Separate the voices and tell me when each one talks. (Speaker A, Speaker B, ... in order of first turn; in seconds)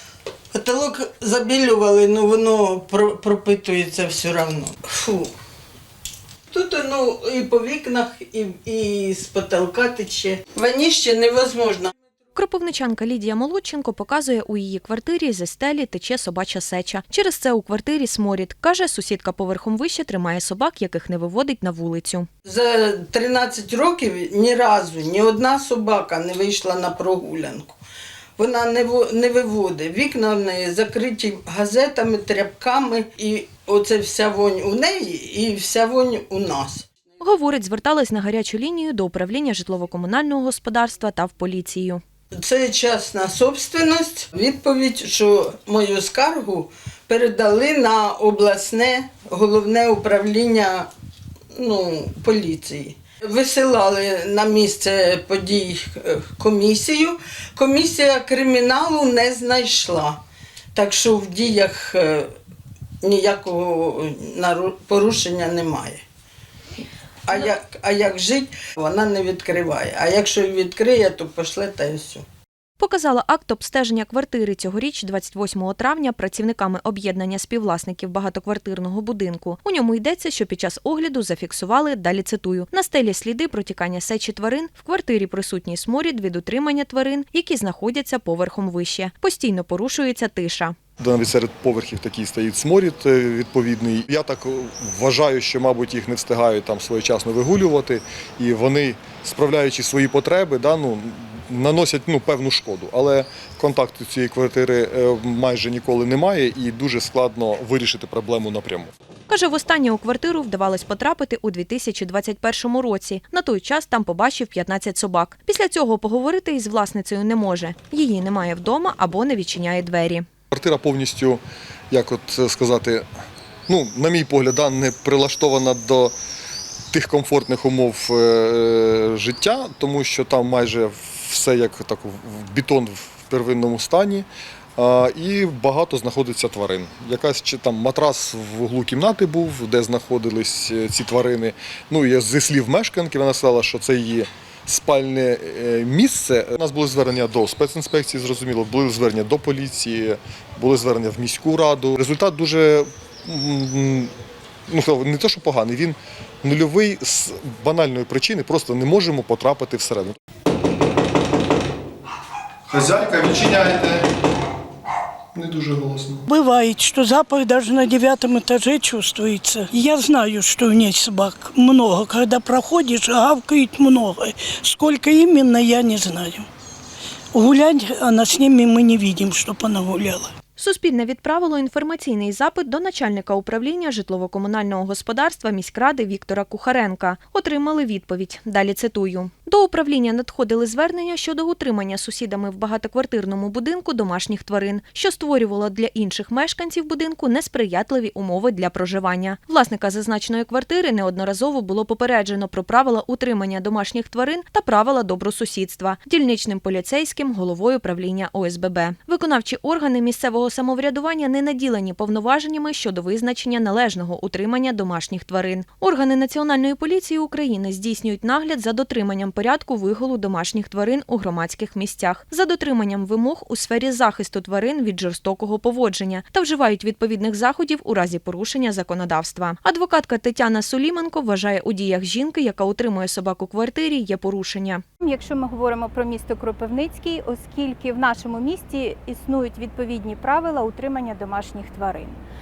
Speaker A: 0.5-5.3, 6.5-11.9, 22.4-27.8, 28.4-36.9, 42.3-50.9, 51.5-60.2, 60.7-62.3, 63.0-66.0, 67.3-72.3
Speaker B: 12.4-22.3, 37.2-42.0, 72.8-90.8, 109.3-120.2, 180.6-234.8
Speaker C: 91.0-108.9, 120.5-123.1, 123.7-126.1, 126.9-154.1, 154.7-160.2, 162.7-164.1, 165.3-166.2
Speaker D: 166.3-176.5, 177.3-180.3
Speaker E: 235.0-242.2